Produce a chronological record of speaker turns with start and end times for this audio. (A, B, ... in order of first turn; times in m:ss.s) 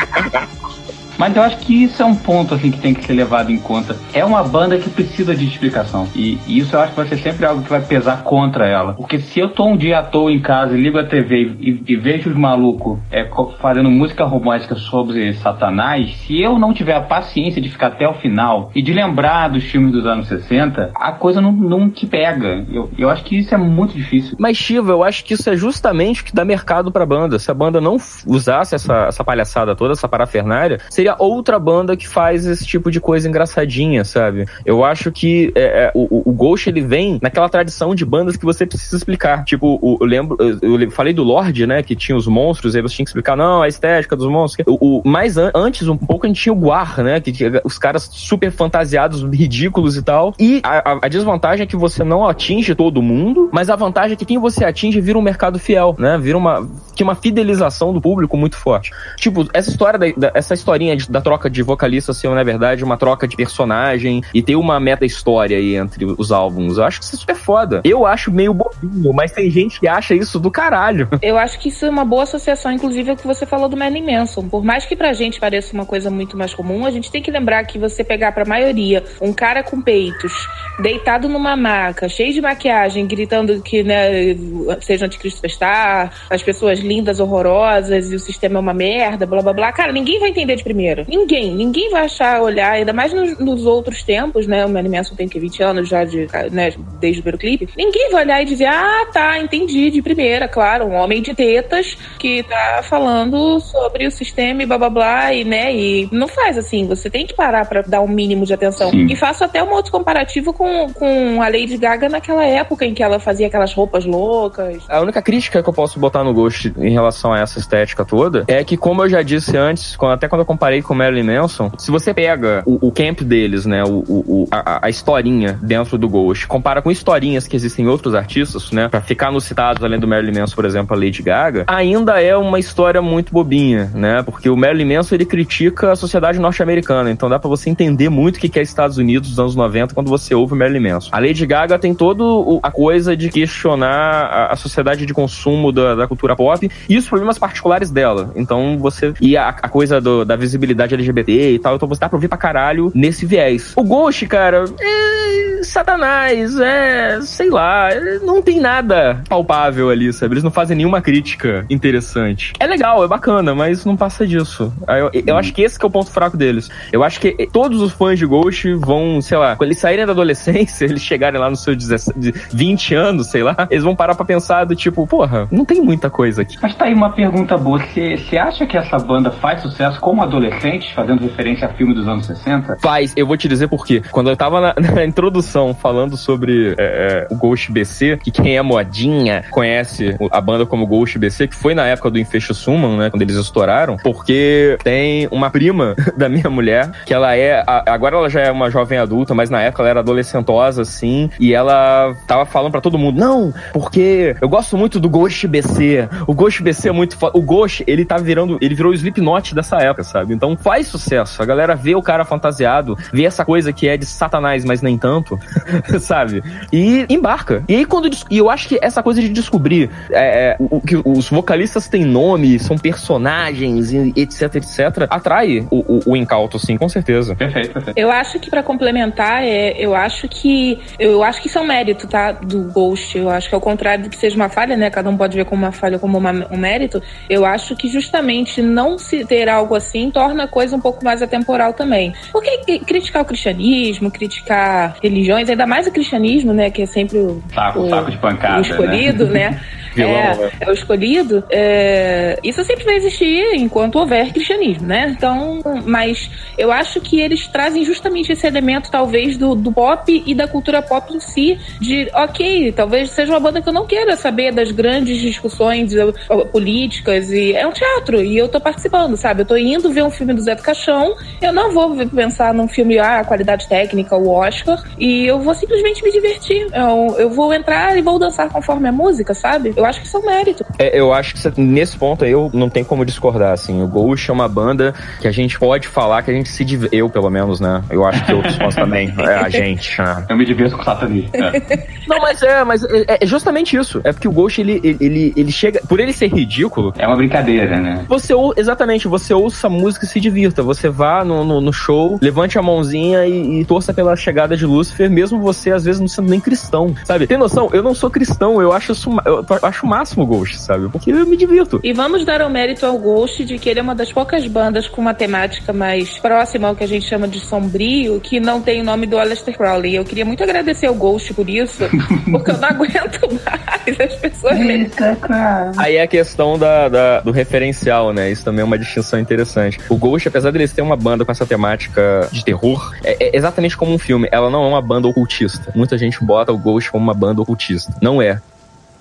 0:01.2-0:24.4 A
0:24.4-1:11.1 B
1:11.2-1:54.9 C
1:48.8-1:49.2 A
1:54.9-2:56.6 B
2:45.3-2:45.5 A
2:56.6-3:02.8 A
3:02.8-3:47.4 B
3:47.4-3:47.9 A
3:48.0-4:40.6 C
4:07.5-4:09.6 A
4:10.0-4:10.5 B
4:40.8-4:50.3 B
4:48.2-4:48.9 A
4:50.3-4:51.6 A
4:51.5-4:51.8 C
4:52.1-4:57.0 B
4:57.0-4:58.1 A
4:58.1-5:11.8 B
5:11.8-5:24.9 C
5:22.1-5:22.5 A
5:24.5-5:25.9 A
5:25.8-5:38.4 B